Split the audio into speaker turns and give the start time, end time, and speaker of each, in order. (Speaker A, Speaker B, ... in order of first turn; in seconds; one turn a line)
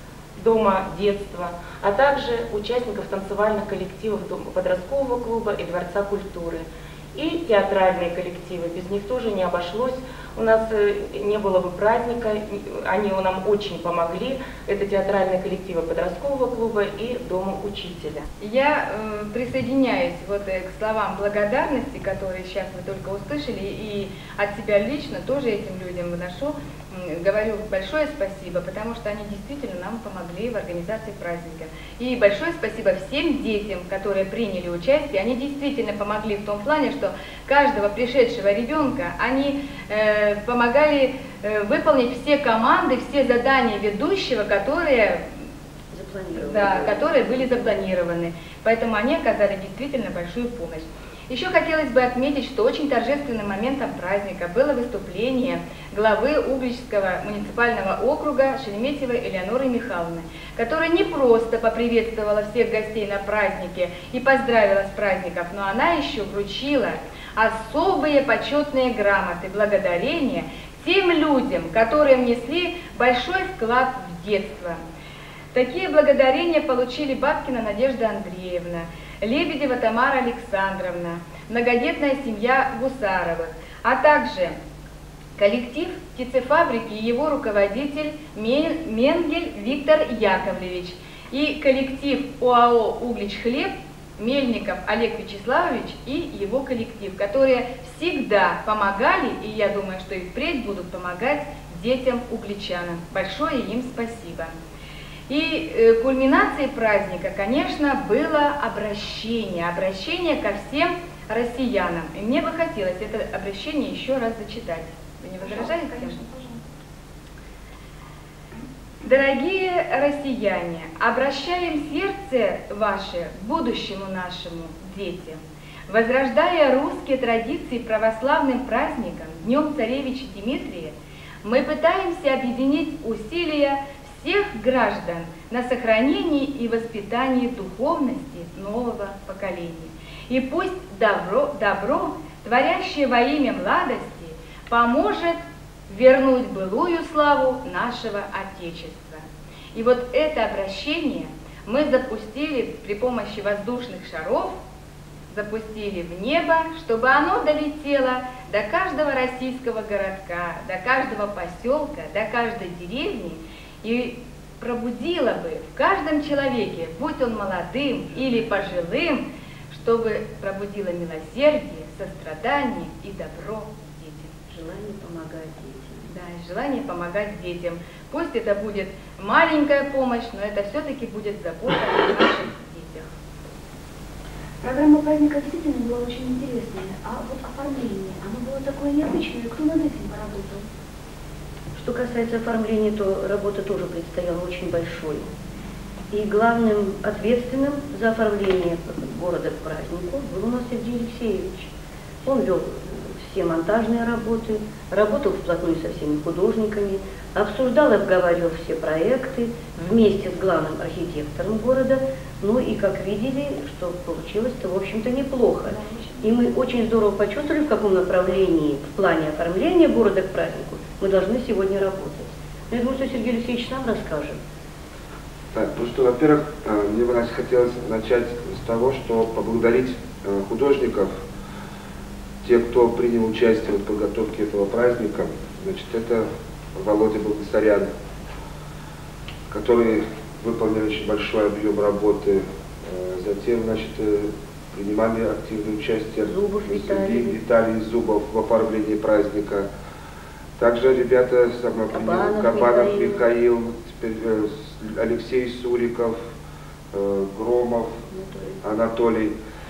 Speaker A: 0.3-18.2
Speaker B: 18.4-45.2
Speaker C: 45.9-47.8
Speaker B: 46.4-74.8
Speaker B: 75.5-84.5
Speaker B: 85.4-104.5
Speaker B: 105.3-116.2
Speaker D: 115.4-116.6
Speaker B: 119.0-149.2
Speaker B: 149.7-154.6
Speaker B: 155.3-174.3
Speaker C: 174.5-176.0
Speaker B: 176.1-183.1
Speaker D: 184.6-190.6
Speaker C: 191.7-195.3
Speaker C: 196.1-201.7
Speaker C: 202.2-224.4
Speaker D: 215.7-216.3
Speaker E: 225.5-231.1
Speaker E: 232.4-237.9
Speaker E: 239.5-249.7
Speaker C: 246.2-247.4
Speaker E: 250.6-256.2
Speaker C: 251.9-253.2
Speaker E: 256.9-258.0
Speaker C: 258.1-258.6
Speaker E: 258.6-259.3